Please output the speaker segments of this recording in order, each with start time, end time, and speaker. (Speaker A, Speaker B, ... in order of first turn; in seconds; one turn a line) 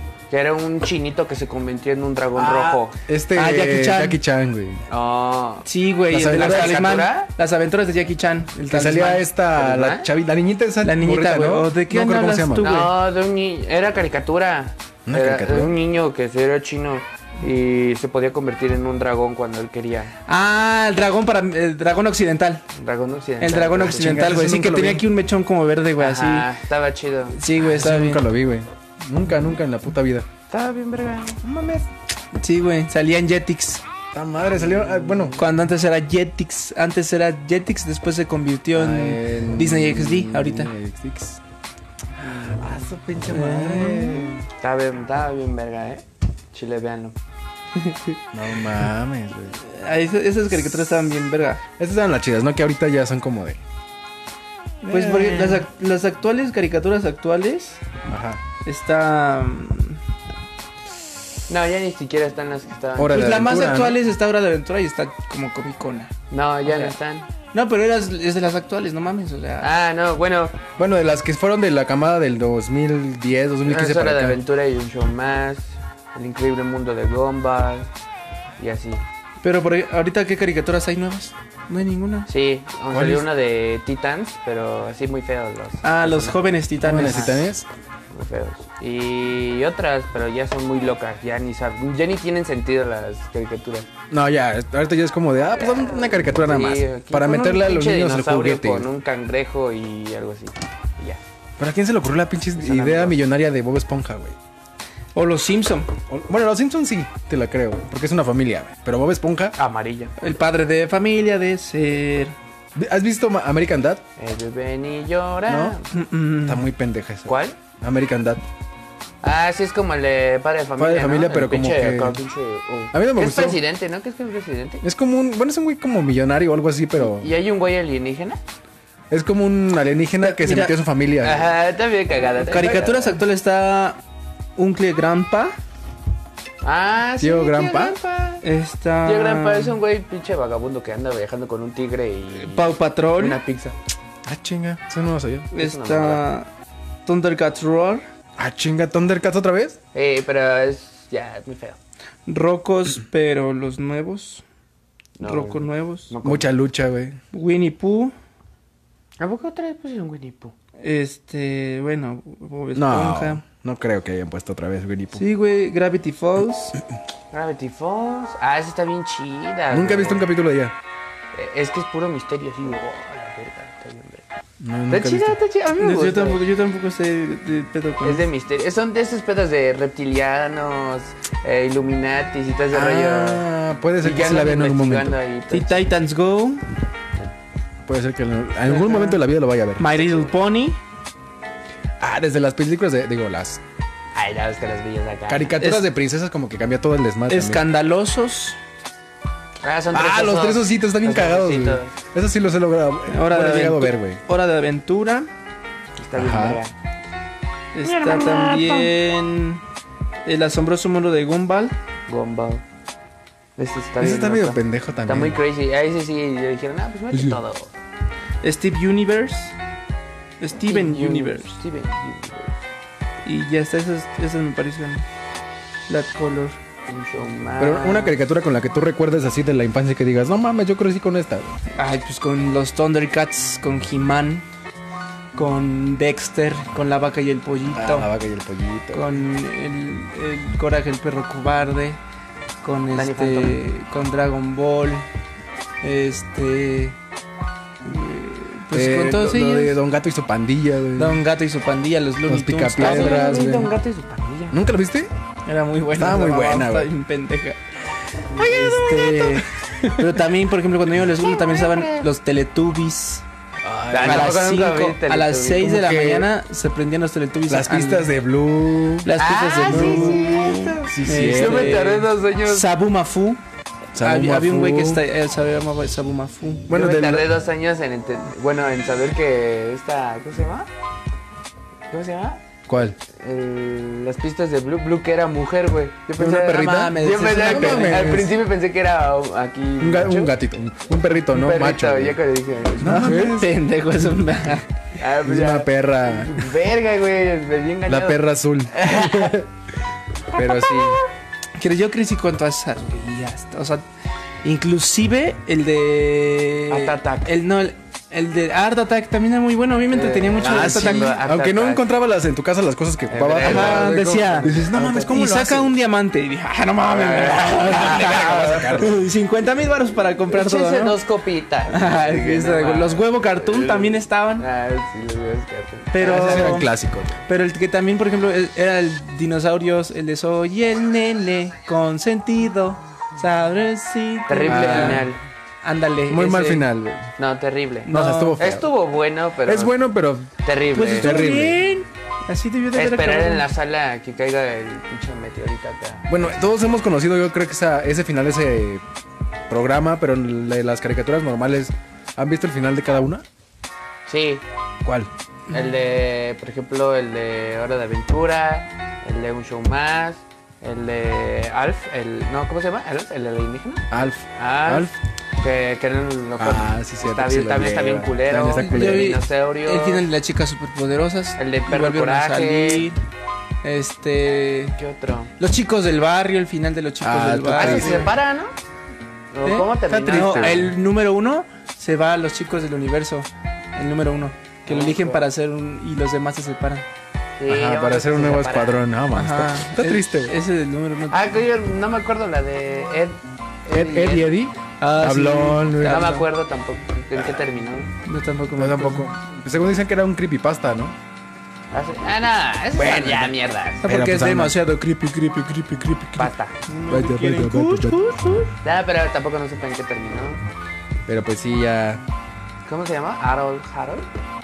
Speaker A: 0.3-3.0
Speaker B: 2.3-4.8
Speaker C: 3.3-4.2
Speaker A: 4.9-7.3
Speaker C: 5.6-9.2
Speaker B: 6.1-6.9
Speaker B: 8.6-12.7
Speaker A: 9.5-10.1
Speaker C: 10.8-12.9
Speaker A: 12.6-20.1
Speaker B: 15.1-15.8
Speaker C: 20.3-22.6
Speaker A: 22.7-24.1
Speaker C: 23.4-26.5
Speaker B: 23.8-25.1
Speaker A: 26.0-27.4
Speaker C: 27.3-28.2
Speaker B: 27.6-30.3
Speaker A: 30.5-31.4
Speaker B: 31.4-31.9
Speaker C: 32.3-33.8
Speaker B: 34.1-35.4
Speaker A: 34.5-35.5
Speaker C: 35.4-40.7
Speaker B: 38.7-41.4
Speaker A: 42.2-42.9
Speaker B: 42.6-44.4
Speaker C: 43.3-44.3
Speaker A: 44.6-47.1
Speaker B: 48.3-49.6
Speaker C: 49.6-51.6
Speaker B: 51.8-53.6
Speaker B: 54.8-55.6
Speaker C: 54.9-57.8
Speaker B: 58.1-58.4
Speaker C: 58.6-60.0
Speaker A: 61.5-63.8
Speaker B: 63.0-64.0
Speaker C: 63.1-66.1
Speaker A: 66.3-67.3
Speaker C: 67.5-69.7
Speaker A: 69.6-70.6
Speaker B: 70.8-74.4
Speaker A: 73.7-77.9
Speaker A: 78.6-79.0
Speaker C: 79.4-82.3
Speaker A: 82.3-87.4
Speaker B: 82.9-83.3
Speaker C: 85.8-87.4
Speaker B: 86.8-87.7
Speaker A: 88.1-93.8
Speaker B: 94.1-98.9
Speaker A: 95.5-101.2
Speaker B: 101.6-104.4
Speaker A: 102.6-103.2
Speaker C: 105.1-105.9
Speaker B: 106.1-109.5
Speaker A: 109.6-110.1
Speaker C: 110.2-112.3
Speaker B: 112.7-114.0
Speaker A: 114.2-115.9
Speaker B: 115.5-115.8
Speaker C: 115.9-116.6
Speaker B: 116.4-118.4
Speaker A: 117.3-117.6
Speaker A: 119.2-124.8
Speaker B: 120.8-122.2
Speaker B: 122.9-123.6
Speaker B: 124.8-127.3
Speaker A: 127.0-128.4
Speaker B: 129.1-131.5
Speaker C: 130.2-130.7
Speaker A: 131.2-133.2
Speaker C: 132.4-134.0
Speaker C: 134.6-135.5
Speaker A: 136.6-138.4
Speaker B: 137.2-138.0
Speaker C: 138.4-139.8
Speaker A: 139.0-143.8
Speaker C: 142.3-143.4
Speaker B: 144.2-145.5
Speaker C: 145.5-146.5
Speaker A: 145.6-146.2
Speaker C: 147.1-148.0
Speaker B: 148.4-149.8
Speaker A: 149.9-151.8
Speaker C: 152.3-154.4
Speaker A: 155.2-156.5
Speaker C: 155.2-156.1
Speaker B: 156.2-157.2
Speaker C: 157.3-158.1
Speaker A: 159.2-160.5
Speaker C: 160.8-163.4
Speaker B: 162.7-165.2
Speaker C: 165.1-166.7
Speaker A: 167.3-170.3
Speaker B: 169.7-170.7
Speaker A: 171.3-174.2
Speaker B: 174.6-175.4
Speaker A: 174.9-176.4
Speaker C: 175.8-178.2
Speaker A: 178.0-183.4
Speaker B: 182.7-185.2
Speaker A: 184.0-185.8
Speaker C: 185.5-186.6
Speaker B: 187.8-189.9
Speaker A: 188.7-189.2
Speaker C: 189.8-190.8
Speaker A: 190.0-190.2
Speaker B: 192.0-193.6
Speaker A: 194.1-195.5
Speaker B: 195.3-197.6
Speaker C: 195.6-195.8
Speaker C: 197.3-198.6
Speaker A: 199.6-201.9
Speaker B: 199.9-204.2
Speaker C: 203.1-205.3
Speaker A: 206.0-206.7
Speaker B: 206.1-206.6
Speaker C: 207.7-209.6
Speaker A: 207.8-208.9
Speaker C: 210.2-211.7
Speaker A: 212.1-212.6
Speaker A: 213.6-217.7
Speaker B: 214.0-215.4
Speaker B: 217.1-217.4
Speaker C: 218.4-219.5
Speaker C: 220.4-221.6
Speaker A: 220.7-222.6
Speaker C: 223.2-225.0
Speaker C: 225.9-226.6
Speaker A: 226.9-228.2
Speaker B: 227.6-231.6
Speaker C: 231.8-234.4
Speaker C: 235.3-238.1
Speaker B: 237.7-239.0
Speaker C: 238.9-242.0
Speaker C: 242.6-245.1
Speaker A: 242.9-243.6
Speaker C: 245.8-247.0
Speaker C: 247.8-249.8
Speaker B: 248.7-251.2
Speaker C: 250.9-253.4
Speaker B: 252.3-253.7
Speaker A: 252.8-254.6
Speaker B: 254.5-255.1
Speaker C: 255.4-257.6
Speaker B: 255.9-256.9
Speaker A: 258.4-259.4
Speaker C: 258.4-263.2
Speaker A: 261.1-262.1
Speaker B: 263.6-264.4
Speaker A: 263.9-266.0
Speaker C: 264.0-268.1
Speaker B: 265.6-266.3
Speaker B: 267.5-269.1
Speaker C: 269.0-273.4
Speaker A: 269.2-272.7
Speaker B: 269.6-271.9
Speaker B: 273.9-275.0
Speaker C: 274.0-276.7
Speaker B: 276.7-277.3
Speaker A: 276.7-280.7
Speaker A: 281.9-282.4
Speaker B: 282.7-283.0
Speaker A: 283.1-290.3
Speaker B: 286.2-288.3
Speaker C: 286.5-288.1
Speaker B: 289.8-292.2
Speaker A: 291.3-293.1
Speaker B: 292.8-293.5
Speaker C: 292.8-294.6
Speaker A: 295.0-299.4
Speaker B: 295.2-296.5
Speaker B: 297.9-299.5
Speaker B: 300.3-301.0
Speaker A: 300.4-300.9
Speaker C: 301.6-303.8
Speaker C: 304.4-311.1
Speaker A: 306.7-307.3
Speaker A: 309.9-311.9
Speaker B: 310.4-315.7
Speaker A: 313.1-315.2
Speaker C: 313.4-314.5
Speaker C: 315.1-321.0
Speaker A: 316.9-318.9
Speaker B: 317.7-318.9
Speaker A: 320.3-326.6
Speaker C: 321.7-324.4
Speaker C: 325.9-326.7
Speaker B: 326.0-327.1
Speaker C: 327.2-335.1
Speaker A: 334.3-335.2
Speaker B: 334.4-335.1
Speaker C: 335.6-336.6
Speaker B: 336.1-337.1
Speaker A: 337.2-339.7
Speaker C: 337.9-338.4
Speaker B: 337.9-338.7
Speaker B: 339.4-340.3
Speaker A: 340.4-341.3
Speaker C: 340.7-343.4
Speaker B: 340.9-341.6
Speaker A: 342.7-346.5
Speaker B: 346.1-348.8
Speaker B: 349.5-353.2
Speaker A: 354.1-354.4
Speaker B: 354.8-355.1
Speaker A: 355.5-370.1
Speaker B: 363.9-364.9
Speaker B: 366.4-369.2
Speaker C: 368.6-373.0
Speaker A: 371.4-372.9
Speaker C: 373.6-374.8
Speaker A: 374.8-375.3
Speaker C: 375.4-378.1
Speaker B: 377.0-378.1
Speaker A: 377.5-378.5
Speaker A: 379.3-380.7
Speaker C: 379.4-386.8
Speaker B: 379.9-380.7
Speaker A: 384.7-385.3
Speaker A: 387.4-388.8
Speaker B: 387.5-390.3
Speaker C: 389.1-391.2
Speaker A: 391.1-394.3
Speaker B: 393.7-396.2
Speaker C: 394.8-396.2
Speaker A: 395.8-397.9
Speaker C: 398.1-399.1
Speaker B: 398.6-401.0
Speaker A: 401.7-403.8
Speaker B: 402.8-403.3
Speaker C: 403.8-408.5
Speaker B: 403.8-404.6
Speaker A: 406.2-406.5
Speaker B: 406.9-408.0
Speaker A: 408.6-410.4
Speaker B: 411.1-412.0
Speaker A: 412.6-414.1